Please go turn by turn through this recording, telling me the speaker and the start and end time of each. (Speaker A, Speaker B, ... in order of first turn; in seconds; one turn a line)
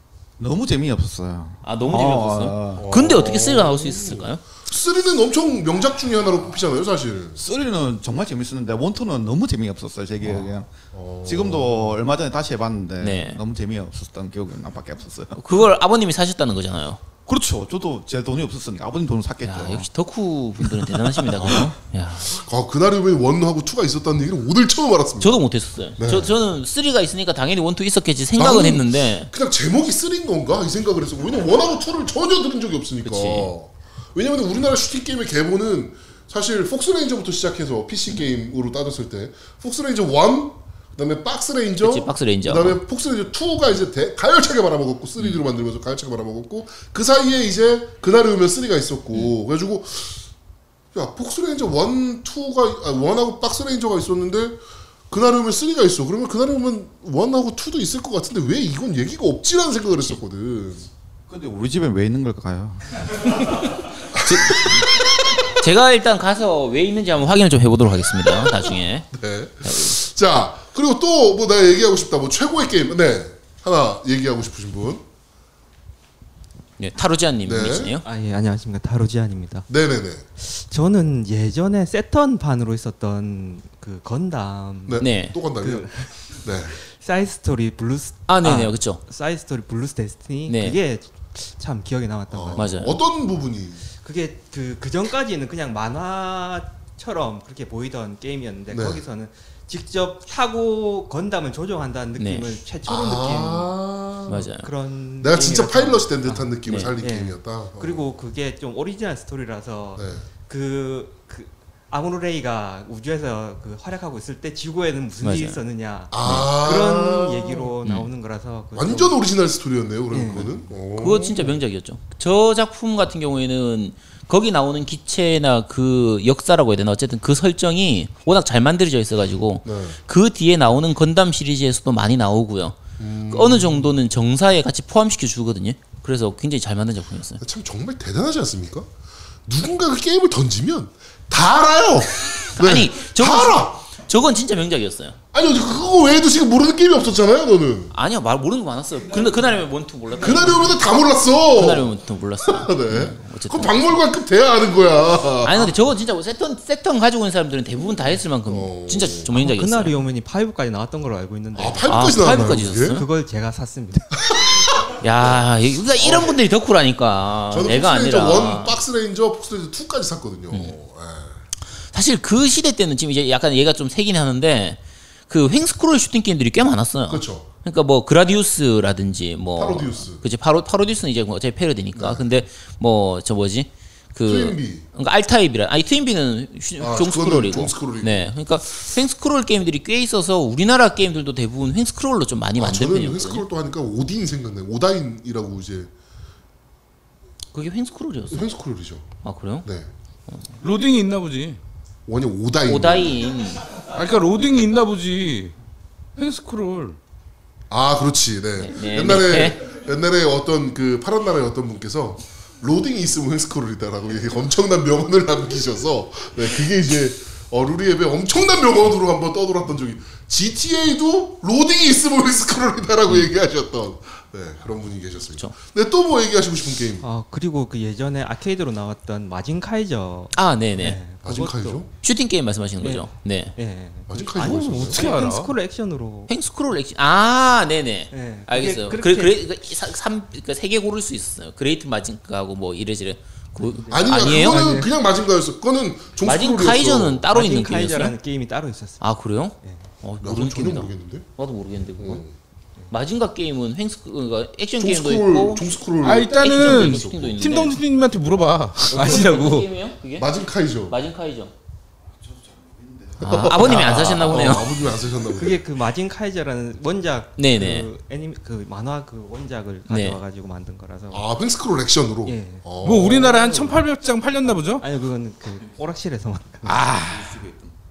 Speaker A: 0.4-2.9
Speaker B: 1.6-4.4
Speaker C: 2.8-7.4
Speaker A: 7.4-15.4
Speaker C: 10.9-12.0
Speaker B: 13.0-13.4
Speaker B: 15.3-17.0
Speaker A: 17.2-19.9
Speaker B: 19.4-22.3
Speaker A: 20.6-21.7
Speaker C: 22.3-25.4
Speaker B: 25.2-29.3
Speaker C: 26.0-26.3
Speaker C: 28.4-50.2
Speaker B: 33.0-33.5
Speaker B: 41.8-42.8
Speaker C: 50.9-60.9
Speaker A: 61.3-62.8
Speaker B: 63.3-63.7
Speaker C: 64.1-65.1
Speaker B: 64.2-69.1
Speaker C: 68.4-75.0
Speaker B: 69.6-70.0
Speaker B: 76.8-78.0
Speaker C: 77.5-78.0
Speaker D: 78.0-79.7
Speaker C: 79.7-80.2
Speaker D: 80.4-86.1
Speaker C: 84.8-85.9
Speaker B: 85.0-85.4
Speaker C: 86.4-86.8
Speaker D: 86.7-92.8
Speaker B: 88.3-89.0
Speaker B: 90.5-90.8
Speaker C: 92.3-93.8
Speaker B: 92.5-93.0
Speaker D: 94.0-103.7
Speaker C: 98.7-99.0
Speaker B: 102.2-102.5
Speaker C: 102.9-104.5
Speaker B: 104.3-104.7
Speaker D: 104.6-119.2
Speaker C: 105.2-108.1
Speaker B: 106.7-106.9
Speaker C: 110.0-110.2
Speaker B: 115.2-115.6
Speaker C: 116.1-117.7
Speaker B: 116.2-116.5
Speaker B: 117.8-118.1
Speaker C: 118.7-121.5
Speaker D: 120.1-120.6
Speaker B: 121.0-137.4
Speaker C: 129.6-130.0
Speaker C: 133.0-133.9
Speaker C: 137.4-138.9
Speaker C: 139.4-143.8
Speaker B: 142.6-145.2
Speaker C: 145.3-147.9
Speaker B: 147.9-150.8
Speaker C: 150.1-155.7
Speaker B: 151.5-154.0
Speaker B: 155.4-160.0
Speaker C: 158.5-159.3
Speaker D: 159.3-164.1
Speaker C: 161.6-163.0
Speaker B: 161.8-163.1
Speaker C: 164.3-165.4
Speaker B: 165.0-168.8
Speaker C: 165.9-166.4
Speaker C: 167.5-171.4
Speaker B: 171.9-193.4
Speaker C: 177.1-177.5
Speaker C: 179.6-180.2
Speaker C: 181.9-182.2
Speaker C: 184.2-184.8
Speaker C: 186.8-188.3
Speaker C: 192.6-195.9
Speaker B: 197.5-198.5
Speaker C: 198.3-199.1
Speaker B: 199.2-199.7
Speaker C: 199.6-199.9
Speaker E: 200.6-201.6
Speaker C: 202.1-203.2
Speaker B: 202.7-203.6
Speaker E: 203.9-205.5
Speaker E: 206.2-207.0
Speaker C: 207.7-227.1
Speaker B: 208.6-209.6
Speaker D: 227.0-231.8
Speaker B: 230.3-231.0
Speaker C: 231.2-231.9
Speaker B: 232.0-233.6
Speaker D: 232.8-236.3
Speaker C: 234.1-235.0
Speaker E: 234.9-235.5
Speaker B: 236.3-244.7
Speaker D: 238.1-239.4
Speaker D: 243.6-244.9
Speaker C: 243.9-247.3
Speaker B: 246.2-248.1
Speaker D: 247.3-249.0
Speaker B: 249.0-252.2
Speaker D: 249.6-249.9
Speaker C: 250.2-251.3
Speaker C: 252.0-252.3
Speaker B: 252.9-255.6
Speaker C: 254.8-257.4
Speaker E: 256.0-259.7
Speaker B: 256.4-257.8
Speaker B: 258.9-260.3
Speaker C: 260.2-261.0
Speaker B: 260.9-261.5
Speaker A: 262.3-263.8
Speaker C: 263.2-265.6
Speaker B: 263.2-264.7
Speaker D: 265.3-271.3
Speaker B: 267.4-267.9
Speaker B: 269.9-270.2
Speaker C: 271.1-273.7
Speaker D: 272.2-272.6
Speaker E: 272.8-274.8
Speaker D: 274.8-276.7
Speaker E: 276.6-277.4
Speaker A: 277.2-277.7